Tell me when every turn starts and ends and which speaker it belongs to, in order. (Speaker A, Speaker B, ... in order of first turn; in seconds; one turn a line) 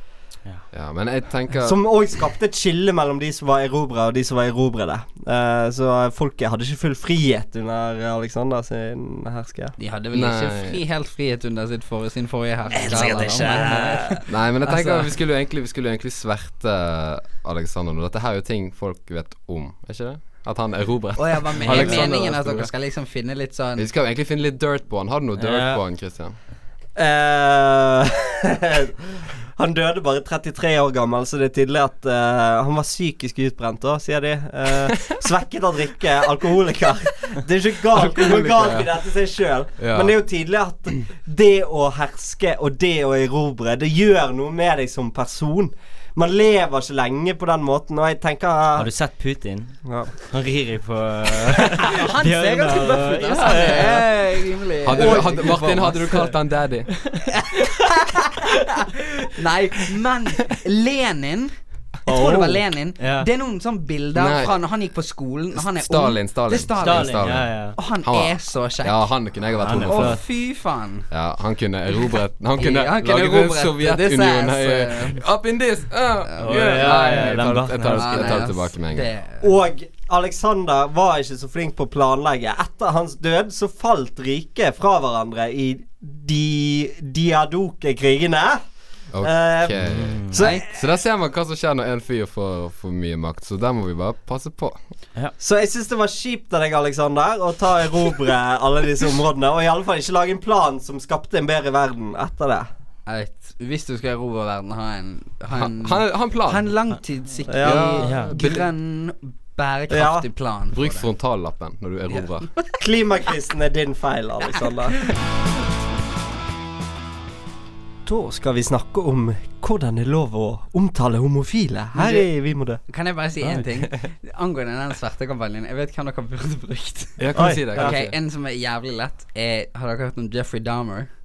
Speaker A: 0.7-1.8
Speaker B: 1.6-9.8
Speaker C: 9.8-15.1
Speaker A: 10.1-10.8
Speaker D: 12.7-14.1
Speaker A: 14.3-22.7
Speaker C: 21.2-23.9
Speaker D: 21.6-22.1
Speaker A: 23.8-26.4
Speaker D: 25.4-25.8
Speaker B: 26.9-48.9
Speaker A: 37.9-38.9
Speaker A: 39.8-40.1
Speaker D: 48.7-54.2
Speaker B: 49.8-50.1
Speaker C: 51.9-56.3
Speaker A: 54.8-56.9
Speaker B: 55.0-55.6
Speaker D: 55.0-55.5
Speaker C: 57.3-58.7
Speaker C: 59.3-61.5
Speaker C: 62.0-69.2
Speaker D: 62.2-62.5
Speaker D: 63.0-63.3
Speaker A: 64.1-64.6
Speaker A: 65.5-70.4
Speaker D: 66.8-67.8
Speaker D: 69.6-70.2
Speaker C: 69.8-71.1
Speaker A: 71.1-79.1
Speaker C: 72.5-75.2
Speaker C: 76.3-79.5
Speaker D: 76.4-78.5
Speaker B: 79.4-88.6
Speaker A: 89.1-94.8
Speaker B: 89.2-90.7
Speaker D: 89.8-90.3
Speaker C: 90.3-90.6
Speaker B: 95.4-102.7
Speaker C: 103.1-111.1
Speaker A: 105.5-106.7
Speaker B: 107.5-108.3
Speaker A: 107.6-108.7
Speaker D: 108.0-108.3
Speaker B: 109.9-110.2
Speaker A: 110.7-112.5
Speaker B: 112.8-115.1
Speaker B: 118.0-122.8
Speaker C: 121.9-122.3
Speaker C: 122.8-131.1
Speaker A: 127.2-128.1
Speaker B: 127.3-128.0